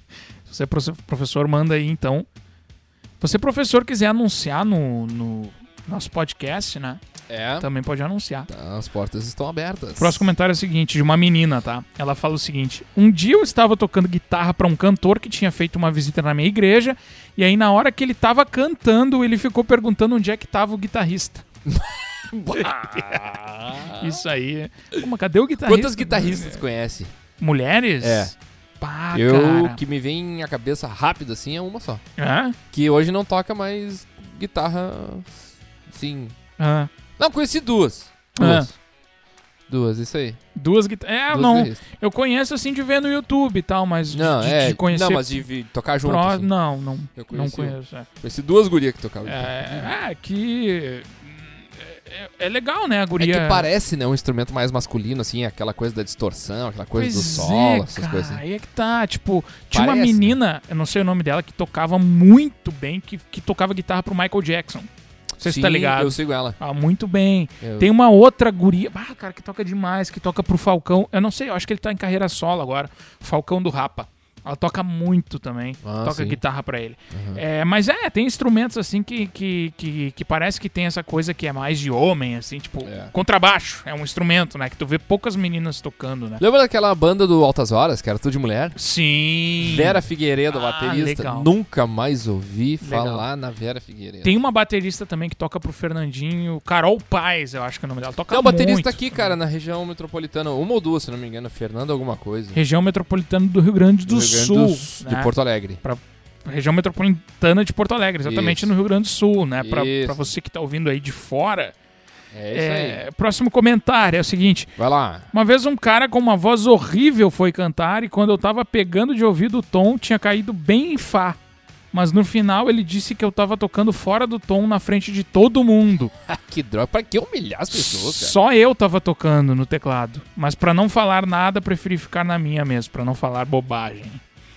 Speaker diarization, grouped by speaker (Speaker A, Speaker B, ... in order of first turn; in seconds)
Speaker A: 0.4-2.3, 3.2-7.0, 7.6-8.5, 10.0-21.4, 22.5-26.6, 27.4-29.8, 32.2-32.5, 36.6-36.9, 38.4-38.7, 40.5-45.4, 46.0-48.1, 49.2-53.7, 56.9-64.9, 65.4-86.4, 88.8-90.0, 90.5-91.5, 92.8-93.2, 94.2-99.3, 102.5-111.7, 112.5-114.7, 115.3-121.4, 121.9-126.1, 127.7-134.2
Speaker B: 7.3-7.7, 8.5-10.3, 21.7-24.2, 25.6-27.1, 28.0-28.3, 29.1-32.0, 32.7-36.4, 37.2-38.7, 39.7-40.4, 41.3-41.8, 44.1-46.5, 47.2-49.9, 53.2-58.4, 59.7-60.4, 65.4-66.6, 67.6-67.9, 75.8-76.4, 77.1-77.4, 82.8-83.1, 86.4-88.8, 89.6-94.3, 98.3-102.6, 104.0-105.8, 108.2-108.7, 109.6-110.3, 112.3-113.0, 114.8-115.3, 126.3-128.4